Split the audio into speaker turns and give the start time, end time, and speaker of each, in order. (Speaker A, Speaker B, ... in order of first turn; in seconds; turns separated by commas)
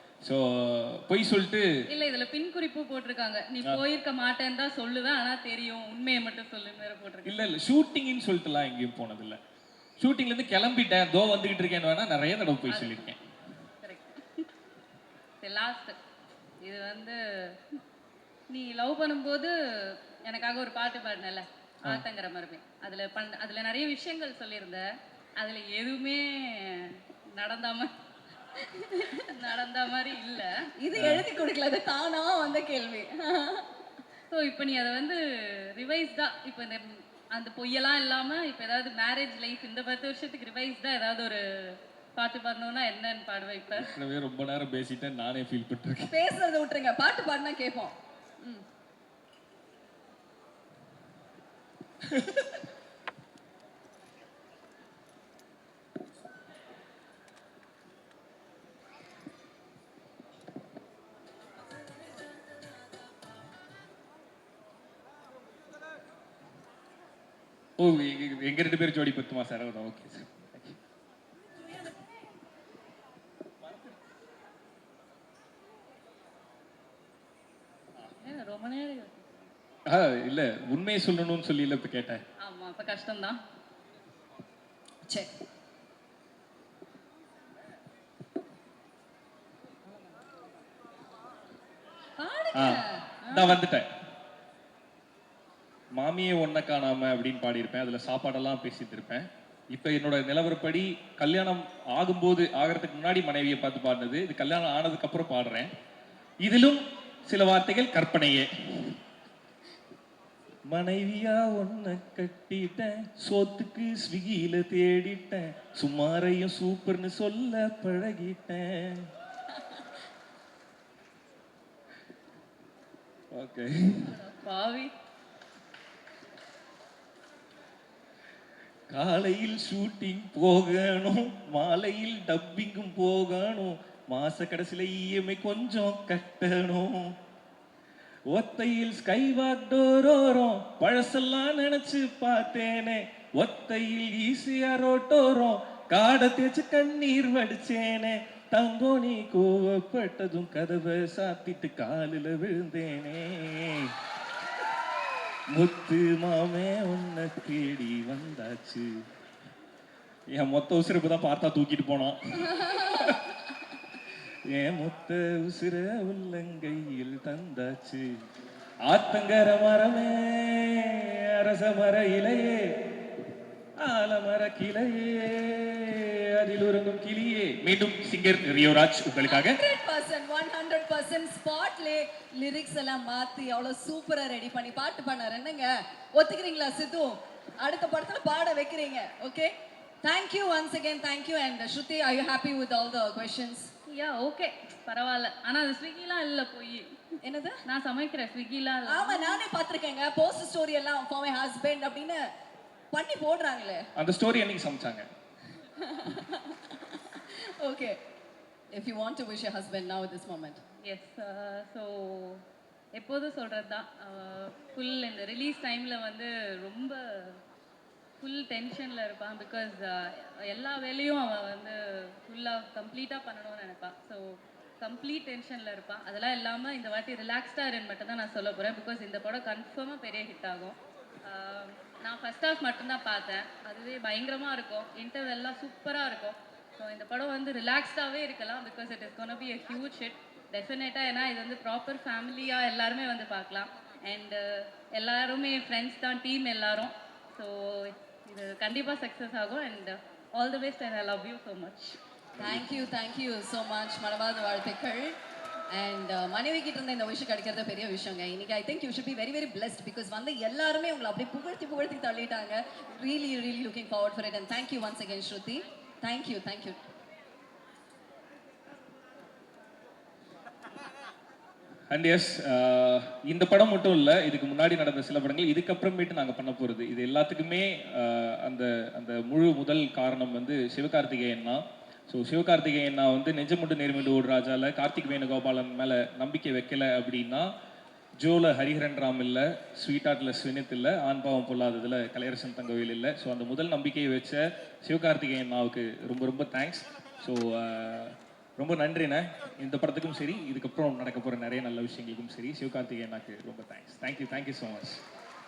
Speaker A: 0.2-1.7, Speaker B: 1.9-7.4, Speaker A: 7.2-9.4, Speaker A: 10.0-13.2, Speaker B: 12.7-13.2, Speaker B: 13.8-14.5, Speaker B: 15.4-16.0, Speaker B: 16.6-17.8, Speaker B: 18.5-24.8, Speaker B: 25.4-27.9, Speaker C: 28.7-29.2, Speaker B: 28.9-30.7, Speaker C: 30.8-33.7, Speaker A: 31.0-31.2, Speaker B: 34.3-44.0, Speaker A: 43.8-46.1, Speaker C: 46.1-48.6, Speaker A: 52.1-52.4, Speaker A: 67.8-70.8, Speaker A: 73.6-74.0, Speaker B: 78.2-79.5, Speaker A: 79.9-82.2, Speaker B: 82.4-83.4, Speaker C: 92.2-93.0, Speaker A: 92.5-93.9, Speaker B: 93.2-93.6, Speaker A: 95.9-105.7, Speaker A: 106.4-109.0, Speaker A: 110.7-119.1, Speaker A: 123.3-124.2, Speaker B: 124.1-124.9, Speaker A: 128.9-137.1, Speaker A: 138.3-153.9, Speaker A: 155.5-158.9, Speaker A: 160.3-163.3, Speaker A: 164.5-168.1, Speaker A: 168.8-172.7, Speaker A: 173.8-179.6, Speaker C: 179.2-193.7, Speaker B: 193.8-196.9, Speaker C: 197.2-197.6, Speaker B: 197.7-199.4, Speaker C: 198.8-202.2, Speaker C: 202.9-203.9, Speaker A: 203.9-205.1, Speaker C: 205.8-208.0, Speaker C: 208.7-210.6, Speaker B: 210.8-217.4, Speaker B: 218.2-252.0, Speaker A: 252.4-252.8, Speaker C: 252.4-255.2, Speaker C: 255.7-266.8, Speaker A: 271.9-287.5, Speaker A: 288.2-305.0